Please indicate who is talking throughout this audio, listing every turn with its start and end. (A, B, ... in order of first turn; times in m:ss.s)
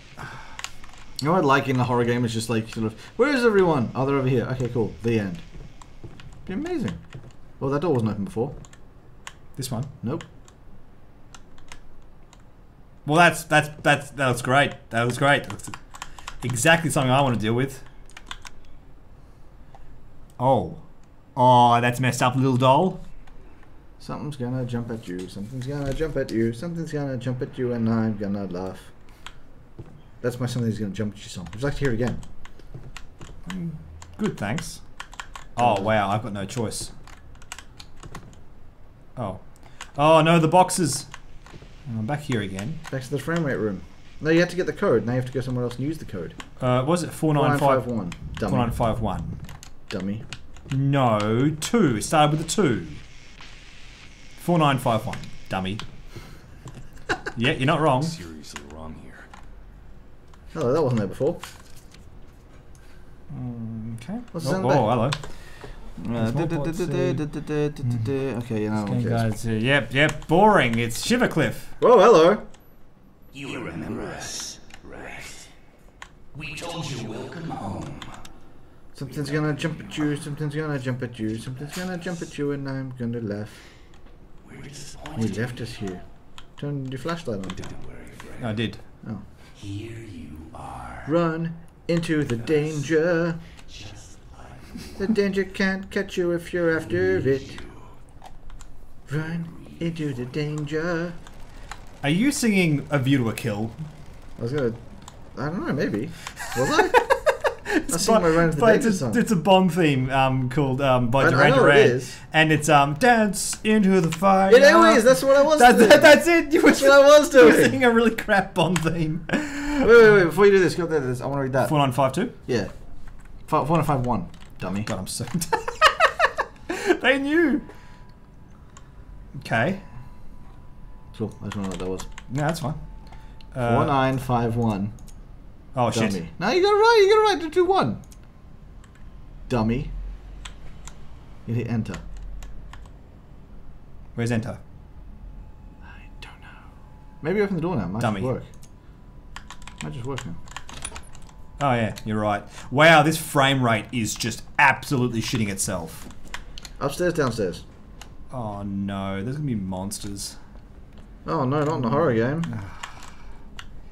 0:01.2-0:05.4 A
0:06.5-0:07.0 A
0:07.6-0:08.6 A
0:09.6-0:09.9 B
0:13.0-0:15.8 B
0:16.4-0:17.8 B
0:20.4-0:20.8 B
0:21.4-0:23.0 B
0:24.0-0:28.9 A
0:30.2-0:32.2 A
0:33.5-0:34.8 B
0:35.6-0:36.9 B
0:35.6-0:35.9 A
0:39.2-0:39.4 B
0:40.0-0:41.1 B
0:41.9-0:42.8 B
0:42.9-0:46.4 A
0:46.6-0:47.8 B
0:47.3-0:48.7 A
0:48.5-0:49.4 B
0:49.9-0:50.2 A
0:50.7-0:53.0 B
0:54.4-0:55.8 B
0:57.4-0:58.1 B
0:58.0-0:59.3 C
1:00.5-1:01.4 A
1:03.3-1:05.2 B
1:04.3-1:05.0 A
1:06.0-1:09.2 A
1:06.2-1:07.2 B
1:08.8-1:11.7 B
1:11.8-1:12.4 A
1:13.3-1:15.5 C
1:16.3-1:18.2 C
1:19.0-1:23.6 A
1:19.2-1:19.9 C
1:24.4-1:25.6 C
1:25.2-1:26.0 A
1:26.6-1:27.7 A
1:27.6-1:28.5 C
1:28.4-1:28.8 B
1:29.6-1:31.1 C
1:31.0-1:33.4 A
1:33.7-1:35.0 C
1:35.0-1:37.6 A
1:37.0-1:37.8 C
1:39.1-1:41.2 A
1:42.0-1:43.8 B
1:44.4-1:44.8 A
1:45.4-1:47.1 A
1:46.4-1:59.9 B
1:47.9-1:49.2 A
1:51.2-1:52.2 A
1:54.5-1:57.8 A
1:59.8-2:01.8 A
2:01.6-2:02.3 B
2:02.5-2:02.7 A
2:03.5-2:04.9 A
2:04.7-2:07.6 B
2:09.4-2:09.8 B
2:11.1-2:12.1 A
2:12.3-2:12.8 B
2:13.5-2:14.0 B
2:13.6-2:14.9 A
2:15.8-2:16.2 B
2:15.9-2:18.0 A
2:19.5-2:19.9 A
2:21.5-2:22.0 A
2:24.2-2:24.6 B
2:25.9-2:26.5 A
2:27.2-2:28.5 A
2:28.0-2:28.3 B
2:29.8-2:30.4 A
2:31.6-2:36.1 B
2:36.8-2:37.6 A
2:38.3-2:40.4 B
2:41.2-2:42.5 A
2:42.5-2:42.9 B